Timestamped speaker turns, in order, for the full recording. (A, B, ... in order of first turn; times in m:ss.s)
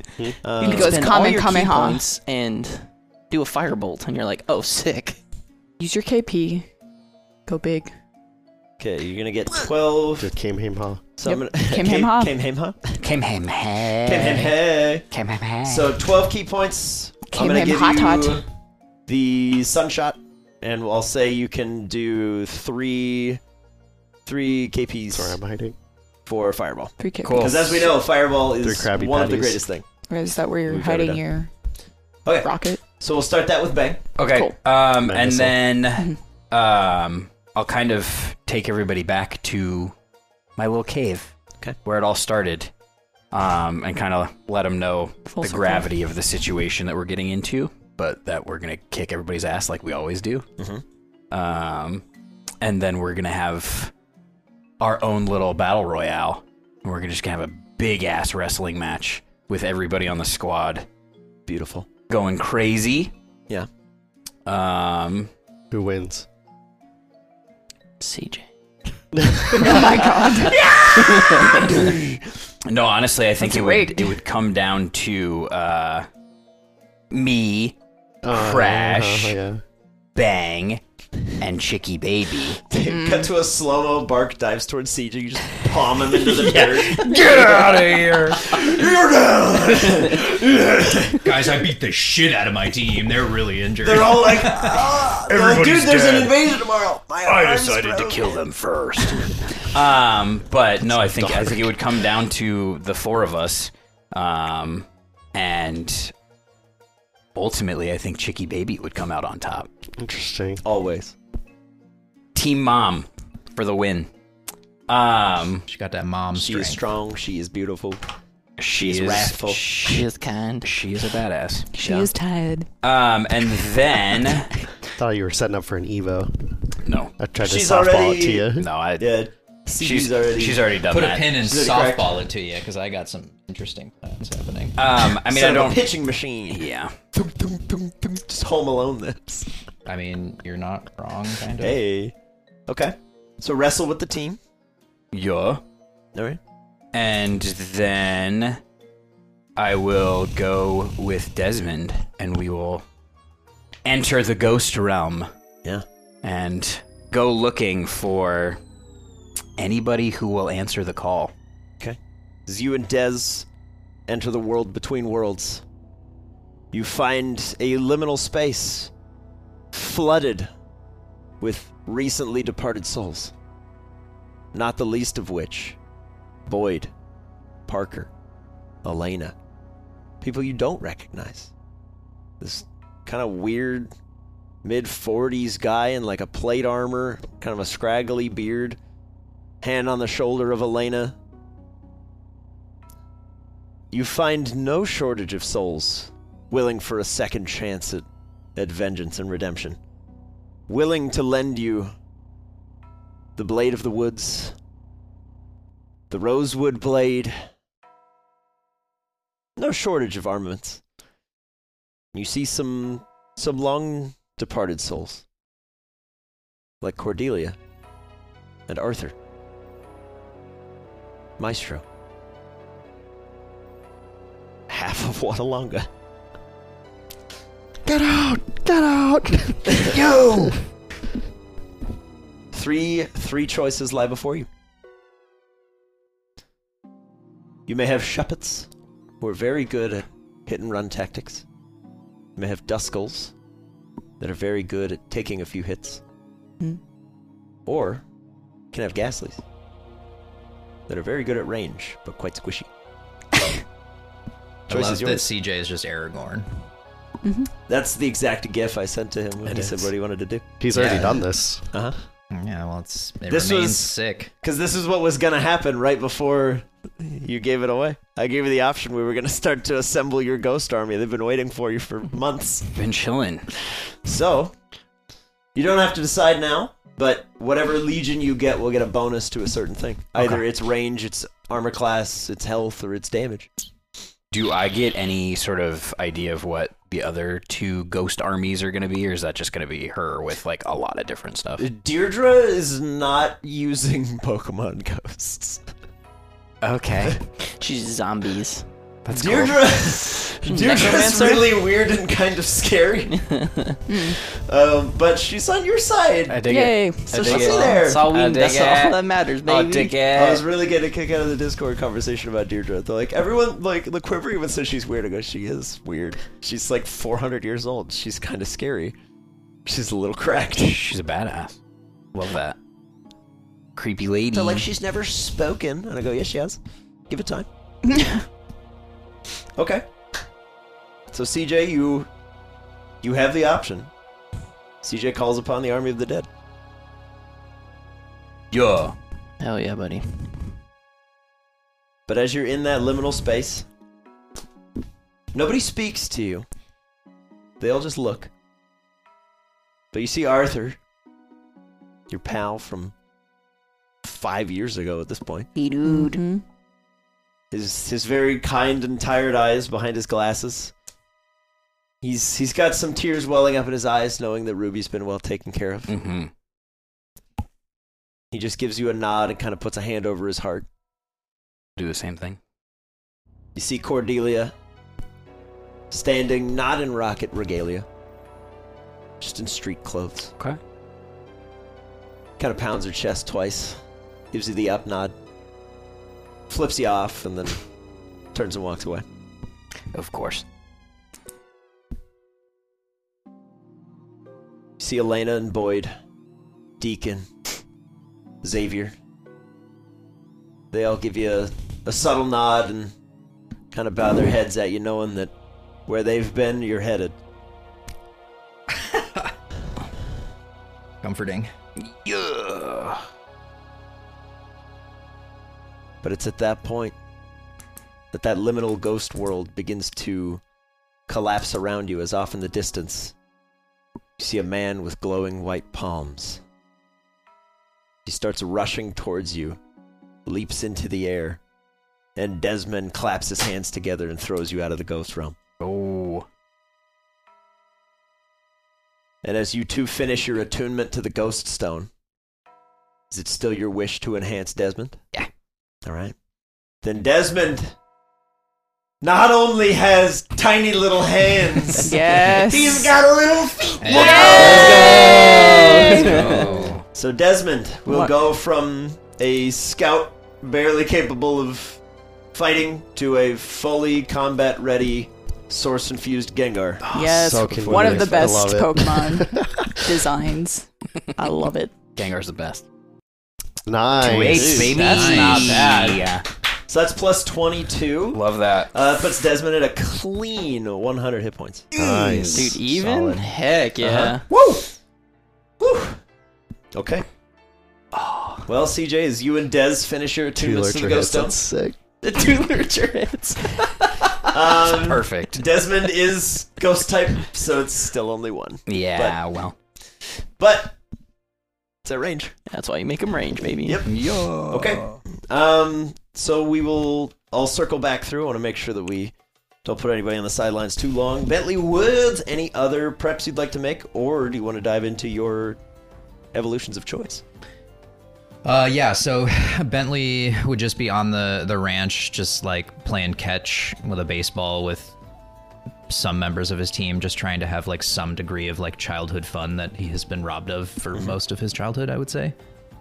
0:00.4-0:01.0 A
0:00.6-0:02.0 B
0:00.6-0:05.2 C
0:05.8-0:06.7 B
0:07.5-0:07.9 B
0:08.8-0:10.3 A
0:10.2-0:11.1 D
0:11.2-0:13.0 A
0:11.2-0:12.3 B
0:13.0-0:14.6 E
0:14.0-0:15.1 A
0:15.1-0:16.0 E
0:15.6-0:18.5 A
0:17.3-0:18.4 B
0:19.1-0:23.4 A
0:24.3-0:25.4 A
0:25.1-0:25.8 D
0:26.3-0:29.8 A
0:27.0-0:27.5 B
0:27.2-0:27.9 E
0:28.6-0:29.6 D
0:30.1-0:31.5 B
0:30.6-0:31.2 A
0:32.2-0:34.0 A
0:32.4-0:32.8 B
0:34.2-0:39.9 E
0:34.3-0:34.6 B
0:34.9-0:35.6 D
0:40.6-0:42.7 E
0:43.3-0:50.5 E
0:45.3-0:45.9 B
0:50.6-0:50.8 A
0:51.3-0:52.0 E
0:52.6-0:53.9 E
0:54.8-1:00.9 E
1:01.5-1:01.9 A
1:02.1-1:03.1 E
1:04.5-1:05.3 E
1:05.7-1:06.3 D
1:08.0-1:08.5 C
1:09.1-1:09.8 D
1:09.6-1:10.6 B
1:10.5-1:12.0 E
1:11.0-1:11.8 C
1:12.7-1:16.1 E
1:13.4-1:14.2 B
1:17.1-1:17.8 E
1:18.2-1:19.6 D
1:18.3-1:19.4 E
1:20.2-1:20.8 E
1:21.4-1:22.6 E
1:22.7-1:27.5 A
1:22.8-1:23.3 B
1:26.6-1:28.6 E
1:27.2-1:28.2 F
1:28.3-1:31.2 A
1:31.2-1:36.1 F
1:33.8-1:38.4 A
1:35.3-1:36.3 E
1:37.3-1:46.1 E
1:41.1-1:41.7 D
1:47.4-1:49.7 E
1:50.0-1:50.6 D
1:50.6-1:51.2 A
1:52.4-1:54.1 E
1:54.9-1:55.7 E
1:55.7-1:56.8 F
1:56.3-1:58.0 A
1:58.6-2:00.0 E
1:58.7-2:00.0 A
1:59.9-2:00.7 C
2:00.6-2:02.1 E
2:01.7-2:02.7 B
2:02.8-2:04.6 E
2:05.0-2:06.5 D
2:06.8-2:07.1 E
2:07.2-2:08.7 D
2:07.4-2:10.8 A
2:08.6-2:09.1 E
2:09.8-2:11.3 E
2:10.9-2:14.9 F
2:11.4-2:12.2 A
2:14.8-2:15.9 E
2:15.3-2:19.5 A
2:16.5-2:16.9 E
2:19.9-2:21.8 F
2:21.6-2:22.2 A
2:22.7-2:24.4 A
2:25.1-2:25.6 E
2:26.2-2:26.4 A
2:26.9-2:28.6 E
2:29.6-2:32.8 E
2:33.8-2:35.3 E
2:36.2-2:38.6 E
2:39.6-2:41.3 E
2:41.8-2:43.5 A
2:44.1-2:45.6 A
2:46.7-2:48.9 A
2:49.7-2:50.5 A
2:51.4-2:53.3 A
2:54.5-2:55.8 A
2:56.5-2:56.9 A
2:57.7-2:58.1 A
2:58.8-2:59.4 A
3:00.2-3:01.5 A
3:02.4-3:03.9 A
3:04.6-3:08.8 A
3:09.6-3:11.2 A
3:13.9-3:19.8 A
3:20.7-3:21.9 A
3:23.4-3:24.6 A
3:26.1-3:27.4 A
3:29.6-3:30.8 A
3:32.1-3:35.2 A
3:36.8-3:37.6 A
3:38.7-3:39.2 A
3:41.4-3:41.8 A
3:44.7-3:45.9 A
3:47.9-3:50.6 D
3:52.5-3:54.5 A
3:57.7-3:58.7 A
3:59.2-4:01.4 A
4:02.4-4:03.3 A
4:04.2-4:06.0 A
4:07.7-4:08.0 A
4:08.7-4:09.4 A
4:10.9-4:12.7 A
4:14.7-4:15.3 A
4:14.7-4:16.5 F
4:17.2-4:17.5 B
4:17.7-4:20.4 A
4:19.4-4:19.9 D
4:20.6-4:21.7 D
4:20.7-4:21.2 F
4:22.3-4:24.3 F
4:23.3-4:32.7 A
4:32.7-4:33.5 E
4:34.0-4:34.6 A
4:35.6-4:43.5 A
4:40.2-4:40.4 E
4:44.3-4:51.6 E
4:51.6-4:55.6 A
4:56.6-4:57.2 E
4:57.5-4:58.7 C
4:59.0-5:00.2 E
4:59.1-5:03.3 A
5:00.5-5:01.5 C
5:03.2-5:03.8 C
5:03.9-5:04.2 B
5:04.1-5:06.4 A
5:06.3-5:10.4 E
5:06.4-5:07.2 B
5:07.1-5:08.2 A
5:07.1-5:10.0 C
5:10.0-5:19.0 A
5:19.7-5:20.9 A
5:20.6-5:21.6 E
5:22.1-5:22.6 E
5:23.8-5:24.7 E
5:24.3-5:27.5 A
5:27.9-5:28.2 B
5:29.6-5:29.8 A
5:31.1-5:32.1 A
5:33.0-5:33.9 A
5:34.8-5:36.3 A
5:38.5-5:39.0 E
5:39.4-5:40.5 C
5:42.1-5:43.7 A
5:45.3-5:46.5 A
5:47.6-5:48.3 A
5:49.9-5:50.8 A
5:52.1-5:52.9 A
5:54.0-5:55.5 A
5:55.6-5:56.2 E
5:55.8-5:56.4 B
5:57.5-6:00.7 A
6:02.0-6:05.9 A
6:05.9-6:06.3 E
6:08.3-6:10.7 A
6:11.8-6:12.4 E
6:13.6-6:14.5 A
6:15.9-6:17.9 A
6:19.2-6:20.3 A
6:22.4-6:23.8 A
6:24.3-6:25.1 A
6:26.5-6:27.6 A
6:28.3-6:29.1 A
6:29.9-6:30.4 E
6:34.8-6:35.9 A
6:36.8-6:37.3 A
6:38.4-6:38.9 A
6:40.7-6:42.9 A
6:43.7-6:45.3 A
6:45.9-6:47.1 A
6:51.0-6:51.5 F
6:51.9-6:53.0 E
6:56.0-6:57.0 A
6:58.1-7:00.4 A
7:01.1-7:03.1 A
7:04.2-7:06.4 A
7:08.0-7:09.6 A
7:10.3-7:11.4 A
7:12.2-7:15.4 A
7:15.6-7:16.2 E
7:19.2-7:21.9 A
7:23.1-7:25.0 A
7:25.8-7:26.2 A
7:26.8-7:27.8 A
7:29.0-7:36.4 A
7:31.8-7:32.9 B
7:33.8-7:34.4 F
7:33.9-7:34.8 B
7:34.2-7:36.7 E
7:34.3-7:36.4 C
7:36.0-7:36.8 F
7:36.9-7:41.8 A
7:37.9-7:38.1 B
7:42.3-7:46.8 A
7:46.8-7:47.9 E
7:46.9-7:49.3 B
7:47.1-7:49.9 D
7:49.8-7:51.8 B
7:52.0-7:52.6 E
7:53.7-7:54.8 D
7:54.0-7:56.2 E
7:54.4-7:54.9 C
7:54.6-7:56.0 A
7:54.8-7:55.8 F
7:56.7-8:01.7 A
7:58.1-7:58.7 E
8:01.8-8:03.3 D
8:01.8-8:02.5 E
8:02.3-8:04.2 C
8:03.9-8:04.7 A
8:05.6-8:06.0 A
8:06.7-8:07.0 A
8:07.9-8:08.4 E
8:08.5-8:11.4 A
8:10.4-8:11.8 D
8:12.0-8:13.9 C
8:14.3-8:19.2 A
8:14.5-8:15.4 E
8:18.7-8:19.5 E
8:20.4-8:20.8 A
8:21.8-8:22.3 A
8:22.5-8:23.8 C
8:23.6-8:35.6 A
8:23.9-8:25.0 E
8:36.3-8:37.2 A
8:38.4-8:45.0 F
8:45.9-8:52.4 F